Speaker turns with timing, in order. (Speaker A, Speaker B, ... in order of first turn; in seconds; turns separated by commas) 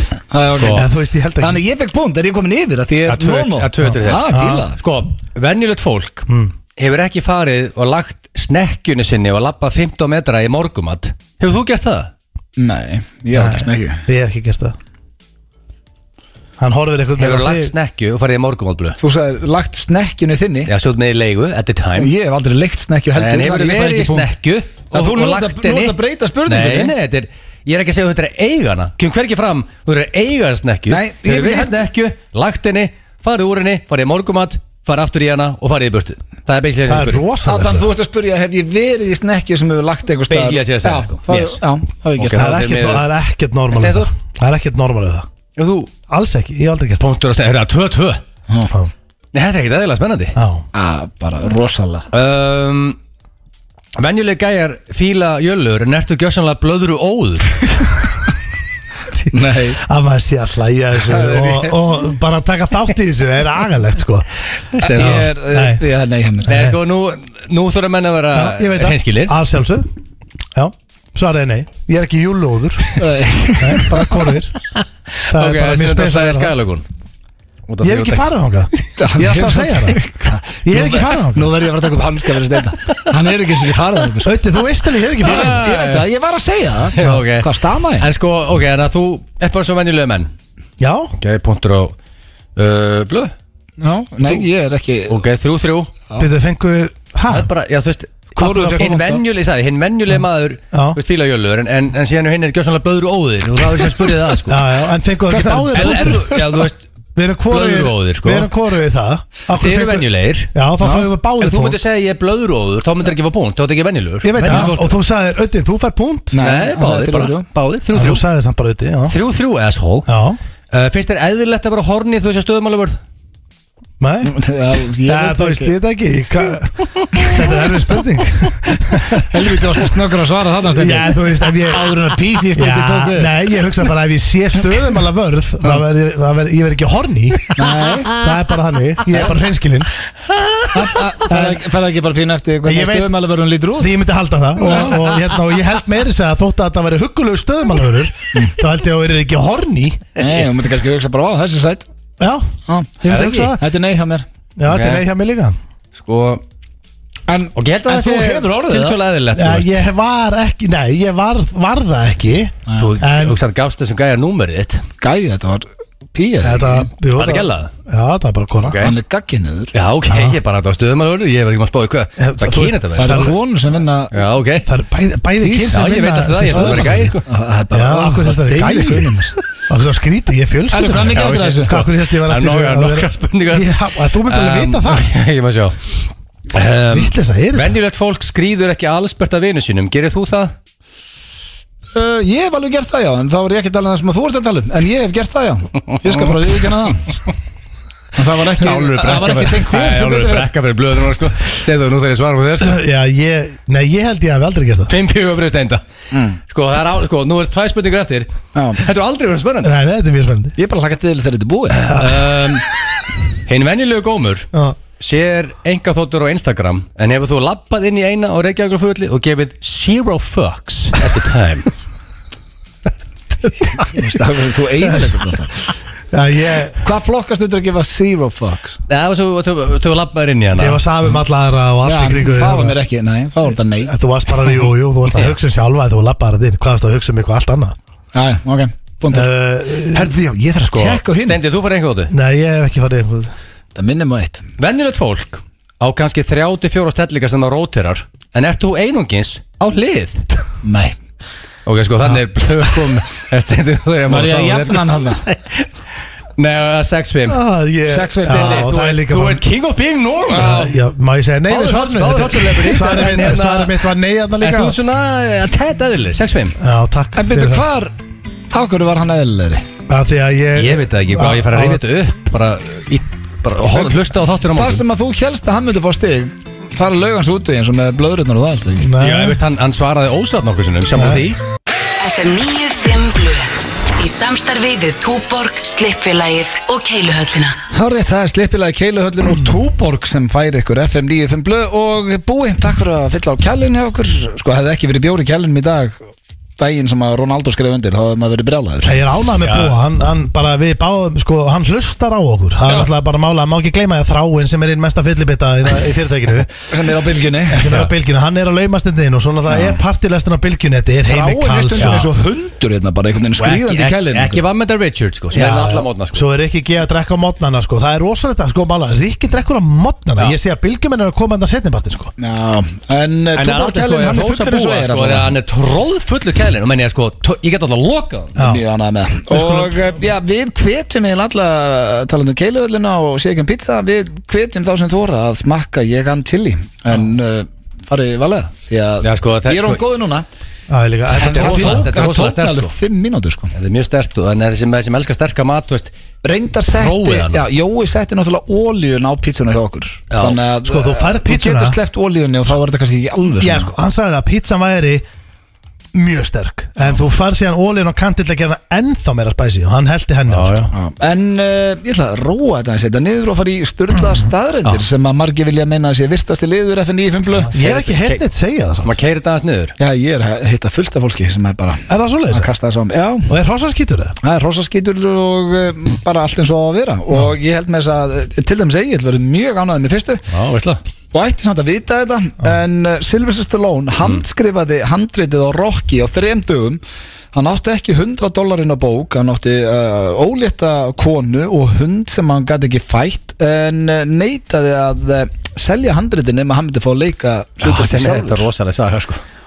Speaker A: 0.3-0.8, Speaker B: 0.6-0.9, Speaker C: 0.7-1.6, Speaker A: 1.4-4.8, Speaker B: 3.1-6.2, Speaker C: 4.3-4.6, Speaker C: 6.3-6.5, Speaker B: 6.8-12.1, Speaker A: 12.6-14.1, Speaker C: 13.3-14.8, Speaker C: 16.6-17.7, Speaker B: 17.2-19.0, Speaker A: 19.0-20.7, Speaker B: 20.7-22.1, Speaker A: 21.9-24.3, Speaker B: 23.1-37.2, Speaker A: 24.9-26.9, Speaker A: 30.9-31.9, Speaker C: 36.9-37.9, Speaker A: 37.4-42.7, Speaker B: 40.3-41.6, Speaker B: 42.1-43.1, Speaker C: 42.4-45.3, Speaker B: 43.7-44.1, Speaker B: 45.6-45.9, Speaker C: 46.1-47.1, Speaker B: 47.0-48.2, Speaker B: 49.3-50.4, Speaker C: 50.4-50.6, Speaker A: 50.7-52.1, Speaker B: 52.1-53.0, Speaker B: 54.0-58.0, Speaker A: 59.3-59.8, Speaker C: 59.7-64.2, Speaker B: 61.3-61.7, Speaker B: 64.7-65.3, Speaker A: 64.8-66.7, Speaker C: 65.0-65.8, Speaker B: 66.5-69.3, Speaker C: 66.5-66.7, Speaker C: 68.3-69.9, Speaker C: 70.5-72.9, Speaker A: 73.0-74.0, Speaker C: 73.6-74.5, Speaker B: 75.2-76.8, Speaker C: 75.3-76.5, Speaker B: 77.7-78.2, Speaker C: 77.8-80.0, Speaker A: 79.0-84.5, Speaker C: 80.6-81.5, Speaker C: 84.2-85.6, Speaker A: 85.2-88.1, Speaker B: 85.2-86.0, Speaker B: 86.9-90.3, Speaker C: 90.8-91.1, Speaker B: 91.2-91.9, Speaker B: 92.5-93.3, Speaker A: 93.8-95.2, Speaker B: 95.1-95.9, Speaker C: 96.2-97.5, Speaker B: 97.3-104.6, Speaker A: 98.3-99.2, Speaker C: 98.4-98.7, Speaker C: 100.7-101.0, Speaker C: 104.5-106.3, Speaker A: 105.3-106.7, Speaker B: 105.7-106.8, Speaker C: 107.2-111.8, Speaker B: 107.5-108.5, Speaker B: 109.5-110.5, Speaker A: 110.8-111.1, Speaker B: 111.4-115.0, Speaker C: 114.2-116.3, Speaker A: 114.4-114.7, Speaker A: 116.3-117.5, Speaker B: 116.4-118.2, Speaker C: 117.9-119.2, Speaker B: 119.1-120.1, Speaker C: 120.1-120.4, Speaker B: 120.7-123.0, Speaker C: 124.0-124.3, Speaker A: 124.2-125.8, Speaker C: 125.0-129.8, Speaker A: 129.1-131.2, Speaker C: 130.7-137.6, Speaker A: 131.7-133.5, Speaker A: 137.6-138.2, Speaker C: 138.1-139.9, Speaker A: 140.7-143.9, Speaker C: 141.2-141.6, Speaker C: 142.6-143.1, Speaker C: 143.8-150.1, Speaker A: 144.7-145.0, Speaker A: 150.2-151.9, Speaker C: 152.2-152.5, Speaker A: 152.7-154.2, Speaker C: 153.0-153.6, Speaker C: 154.6-155.6, Speaker B: 154.7-155.0, Speaker B: 155.9-156.4, Speaker A: 157.3-159.0, Speaker B: 157.5-159.7, Speaker C: 159.3-163.4, Speaker A: 162.7-163.0, Speaker B: 162.8-164.8, Speaker A: 165.0-166.9, Speaker C: 166.4-168.8, Speaker B: 167.2-167.7, Speaker B: 168.6-168.9, Speaker A: 168.8-169.7, Speaker B: 169.7-173.3, Speaker C: 170.1-170.4, Speaker C: 172.2-173.3, Speaker A: 172.9-174.1, Speaker B: 174.1-174.7, Speaker C: 174.6-177.2, Speaker A: 175.4-175.8, Speaker B: 175.7-177.2, Speaker A: 176.5-179.4, Speaker C: 177.7-179.1, Speaker C: 179.7-185.1, Speaker A: 180.7-181.8, Speaker B: 181.1-190.5, Speaker C: 186.9-187.8, Speaker A: 191.9-197.2, Speaker A: 198.1-200.5, Speaker B: 198.6-202.8, Speaker C: 202.6-204.9, Speaker B: 204.9-205.8, Speaker A: 206.1-206.4, Speaker B: 206.5-209.7, Speaker A: 208.5-208.8, Speaker C: 209.6-210.5, Speaker A: 210.6-212.1, Speaker B: 211.9-212.6, Speaker C: 211.9-212.2, Speaker B: 213.4-221.7, Speaker C: 214.5-214.8, Speaker C: 223.6-224.1, Speaker A: 223.8-225.6, Speaker C: 224.8-225.2, Speaker C: 226.1-226.8, Speaker A: 226.8-228.8, Speaker B: 228.9-230.8, Speaker C: 230.5-232.8, Speaker A: 231.8-233.9, Speaker C: 233.8-237.8, Speaker A: 238.1-239.3, Speaker C: 239.1-240.1, Speaker A: 239.9-241.4, Speaker B: 240.7-242.1, Speaker C: 242.1-243.3, Speaker A: 243.7-244.5, Speaker B: 244.6-250.2, Speaker A: 250.6-250.9, Speaker B: 251.7-255.7, Speaker A: 254.1-255.2, Speaker B: 256.4-257.4, Speaker C: 257.3-259.4, Speaker A: 257.8-258.7, Speaker B: 258.2-260.7, Speaker C: 260.3-264.8, Speaker B: 261.5-263.8, Speaker B: 264.4-266.6, Speaker C: 266.6-267.6, Speaker A: 267.1-267.9, Speaker A: 268.5-269.6, Speaker C: 269.9-271.8, Speaker B: 270.5-274.8, Speaker A: 274.5-278.9, Speaker C: 278.8-279.4, Speaker B: 279.0-281.4, Speaker C: 280.9-281.3, Speaker D: 282.0-287.6, Speaker A: 287.7-299.1, Speaker C: 289.2-289.6, Speaker C: 298.8-306.5, Speaker B: 299.4-299.7, Speaker A: 306.7-307.9, Speaker C: 307.5-312.1, Speaker A: 309.5-309.8, Speaker A: 311.0-314.4, Speaker B: 311.8-312.1, Speaker B: 313.4-316.3, Speaker C: 315.3-322.1, Speaker A: 322.2-325.3, Speaker B: 323.3-328.4, Speaker C: 328.4-328.6, Speaker A: 328.4-340.2, Speaker C: 329.3-329.9, Speaker B: 339.0-339.8, Speaker C: 340.7-342.0, Speaker A: 341.1-343.5, Speaker B: 341.2-342.7, Speaker B: 343.5-345.9, Speaker A: 346.2-353.7, Speaker B: 346.7-347.4, Speaker B: 350.1-350.4, Speaker C: 350.6-351.8, Speaker C: 353.4-355.0, Speaker C: 355.9-360.7, Speaker B: 360.3-360.7, Speaker A: 360.7-367.6, Speaker C: 367.4-368.9, Speaker B: 367.5-368.2, Speaker B: 368.8-369.7, Speaker A: 369.8-373.3, Speaker C: 371.9-372.5, Speaker C: 373.3-374.1, Speaker A: 374.2-380.2, Speaker B: 380.3-380.8, Speaker A: 381.1-386.8, Speaker A: 387.3-398.5, Speaker B: 397.6-399.2